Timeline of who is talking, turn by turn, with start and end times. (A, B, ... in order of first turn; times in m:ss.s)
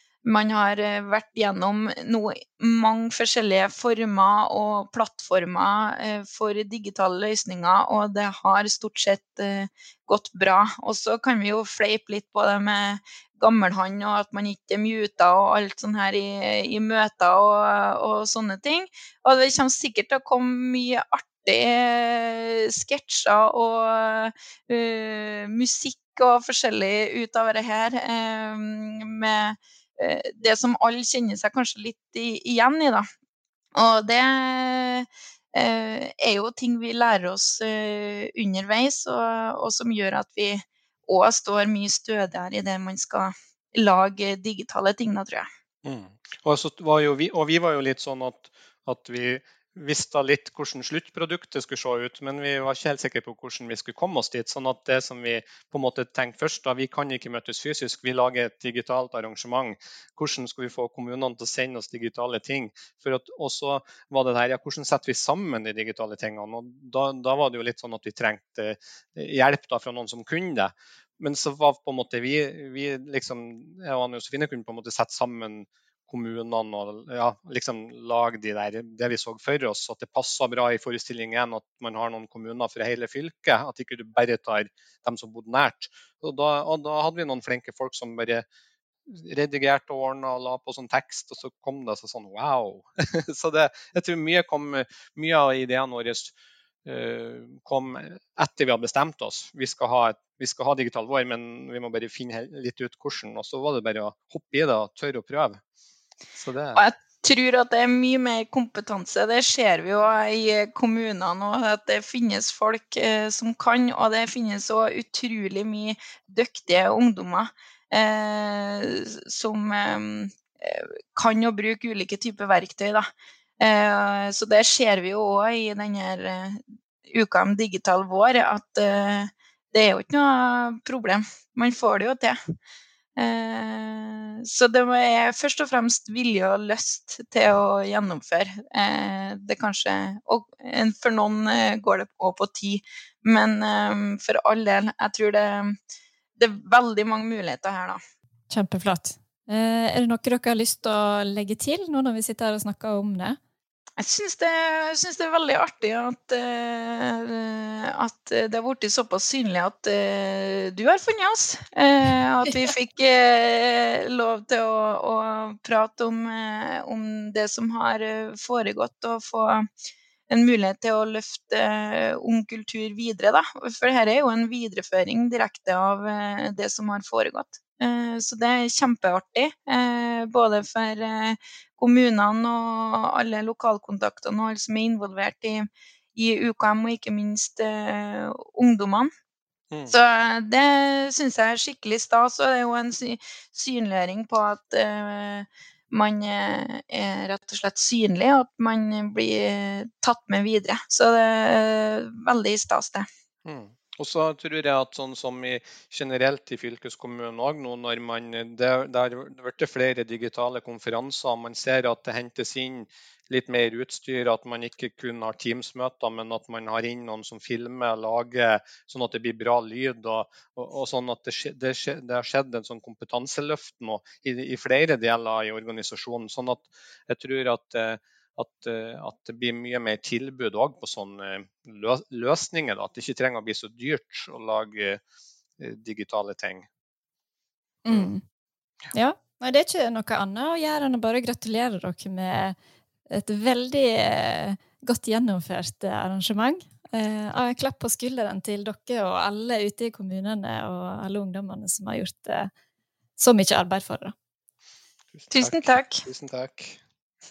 0:00.2-0:33.1 A
0:33.7-0:45.5 A
0:45.8-1:28.4 B
1:29.1-1:36.3 B
1:36.8-1:45.6 B
1:46.3-1:46.8 B
1:46.7-2:03.1 A
2:03.6-2:12.4 A
2:13.2-2:25.7 A
2:26.4-2:28.0 A
2:28.5-2:33.4 C
2:34.0-2:49.7 A
2:50.3-3:09.1 A
3:09.7-3:10.0 B
3:09.9-3:23.1 A
3:23.4-3:55.0 B
3:55.6-3:56.7 B
3:57.8-3:58.2 C
3:58.9-4:02.6 C
4:03.1-4:12.5 C
4:13.2-4:14.1 C
4:15.1-4:16.8 B
4:15.3-4:16.0 A